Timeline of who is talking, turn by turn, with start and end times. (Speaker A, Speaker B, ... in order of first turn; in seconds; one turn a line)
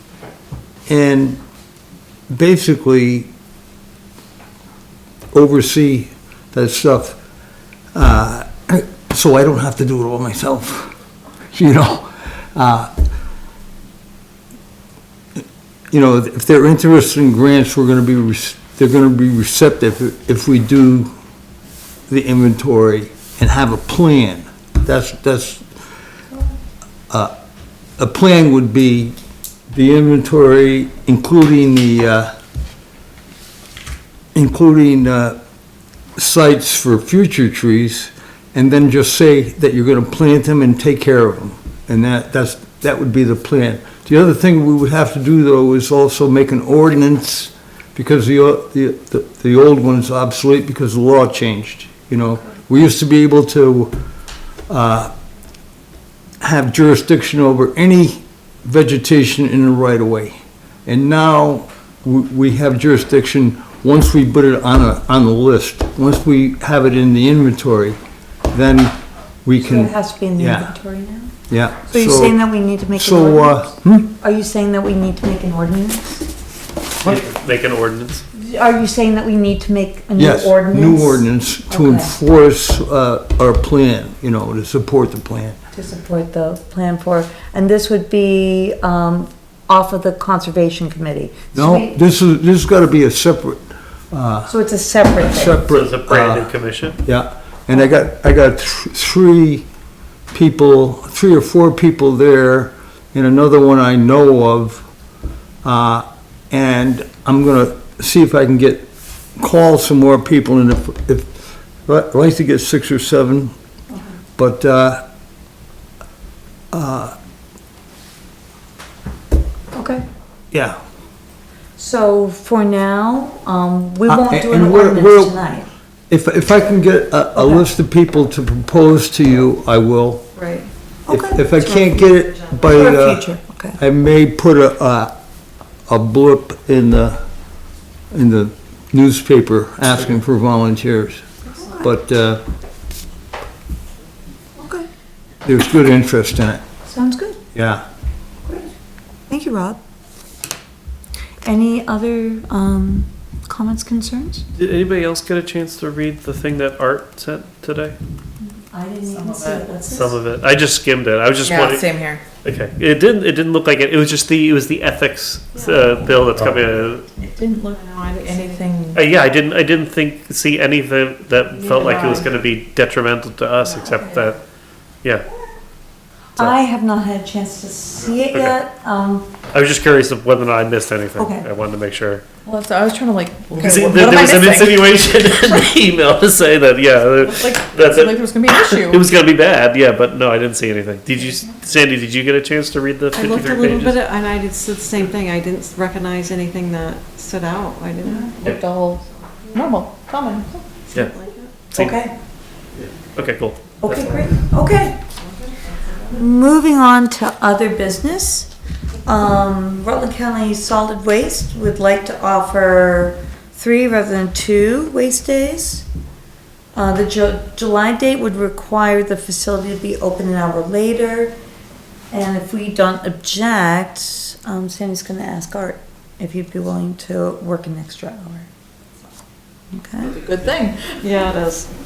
Speaker A: 0.9-1.4
Speaker A: 2.3-3.3
Speaker A: 5.3-7.2
Speaker A: 8.0-10.9
Speaker A: 11.5-12.9
Speaker A: 15.9-21.1
Speaker A: 22.1-25.7
Speaker A: 28.0-29.1
Speaker A: 29.7-32.3
Speaker A: 34.4-35.4
Speaker A: 36.2-54.0
Speaker A: 54.7-55.1
Speaker A: 56.4-68.0
Speaker A: 68.5-70.8
Speaker B: 69.6-71.3
Speaker A: 71.5-72.4
Speaker B: 71.9-76.3
Speaker A: 73.0-74.1
Speaker C: 77.0-78.2
Speaker B: 78.3-82.2
Speaker A: 80.2-85.6
Speaker B: 85.7-92.0
Speaker A: 91.5-94.5
Speaker B: 94.5-95.6
Speaker A: 95.3-99.7
Speaker C: 95.7-97.0
Speaker A: 100.3-104.9
Speaker A: 105.6-111.3
Speaker A: 111.9-113.5
Speaker A: 114.4-115.0
Speaker A: 116.7-117.2
Speaker B: 119.7-120.0
Speaker A: 120.5-120.8
Speaker B: 121.8-125.7
Speaker A: 124.1-125.4
Speaker A: 126.1-130.2
Speaker B: 127.4-127.7
Speaker D: 130.4-130.7
Speaker B: 131.1-133.8
Speaker A: 131.1-135.1
Speaker A: 135.9-137.2
Speaker A: 138.1-142.4
Speaker B: 144.6-144.9
Speaker A: 145.4-146.6
Speaker B: 146.9-147.4
Speaker A: 147.6-147.8
Speaker B: 148.5-148.7
Speaker B: 149.3-149.8
Speaker B: 151.4-154.5
Speaker C: 154.6-157.9
Speaker B: 158.7-160.2
Speaker C: 159.3-167.2
Speaker E: 161.4-162.2
Speaker D: 165.6-165.9
Speaker E: 167.3-169.0
Speaker D: 167.7-168.8
Speaker C: 168.9-174.4
Speaker D: 171.6-172.3
Speaker D: 173.6-174.2
Speaker B: 176.4-179.3
Speaker C: 179.5-182.2
Speaker B: 181.2-181.5
Speaker E: 182.5-184.8
Speaker C: 183.6-194.0
Speaker E: 187.2-189.1
Speaker D: 193.1-198.6
Speaker E: 198.4-200.7
Speaker D: 200.9-201.5
Speaker C: 201.7-202.0
Speaker B: 201.8-202.1
Speaker C: 203.0-204.3
Speaker B: 203.8-205.0
Speaker D: 205.2-206.2
Speaker B: 206.1-208.5
Speaker B: 209.1-215.9
Speaker B: 216.8-221.4
Speaker B: 222.1-228.5
Speaker B: 229.7-230.2
Speaker E: 230.2-231.0
Speaker D: 230.9-231.7